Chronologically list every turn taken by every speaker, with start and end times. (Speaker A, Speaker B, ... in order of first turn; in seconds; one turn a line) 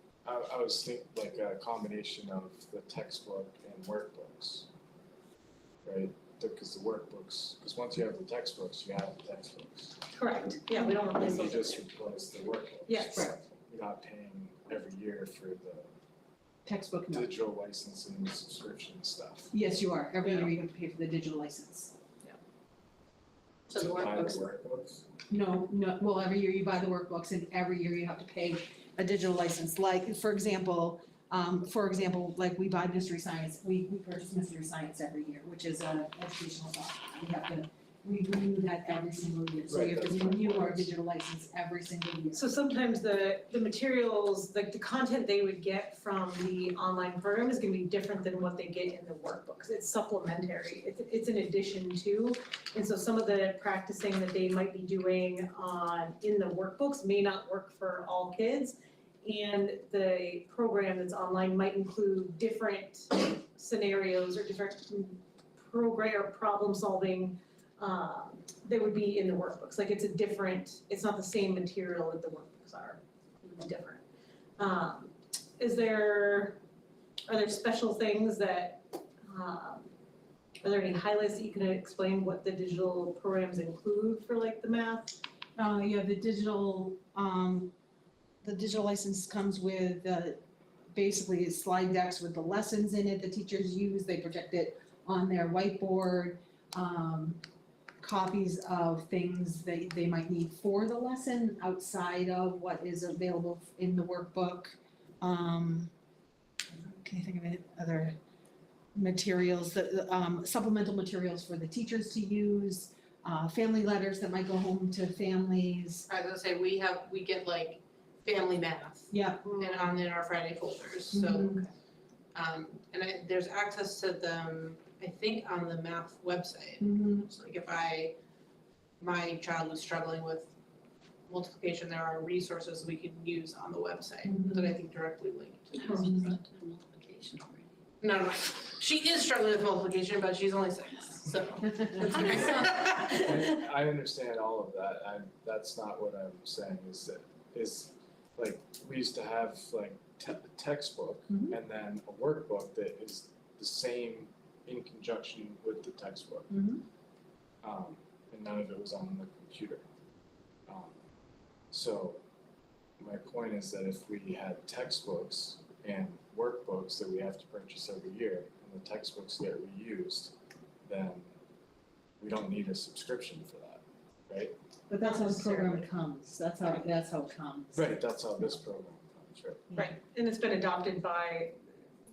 Speaker A: 0.2-4.7
Speaker A: 5.8-10.1
Speaker B: 10.1-11.9
Speaker A: 11.1-15.9
Speaker B: 12.9-13.3
Speaker C: 16.6-17.3
Speaker A: 17.1-19.5
Speaker C: 19.5-21.9
Speaker A: 23.7-25.1
Speaker D: 23.7-24.4
Speaker E: 23.8-24.2
Speaker C: 25.3-42.5
Speaker A: 39.7-40.9
Speaker B: 42.3-74.0
Speaker B: 74.6-76.6
Speaker B: 77.3-79.9
Speaker B: 80.6-85.2
Speaker C: 85.6-87.7
Speaker C: 88.4-90.4
Speaker C: 90.9-97.4
Speaker C: 98.0-105.9
Speaker C: 106.7-108.2
Speaker C: 108.9-116.1
Speaker E: 116.1-121.5
Speaker C: 119.1-119.6
Speaker C: 121.1-121.6
Speaker E: 122.3-128.1
Speaker C: 126.8-127.3
Speaker E: 129.0-130.5
Speaker E: 131.3-136.1
Speaker C: 134.2-134.7
Speaker D: 135.8-137.7
Speaker E: 138.0-143.4
Speaker A: 143.1-156.6
Speaker C: 151.3-151.6
Speaker C: 156.5-156.8
Speaker A: 157.6-159.8
Speaker A: 160.7-161.0
Speaker A: 161.7-162.2
Speaker A: 163.0-170.3
Speaker A: 170.8-171.3
Speaker A: 172.2-174.6
Speaker C: 174.9-178.0
Speaker B: 175.0-175.9
Speaker A: 177.7-179.7
Speaker B: 179.7-181.6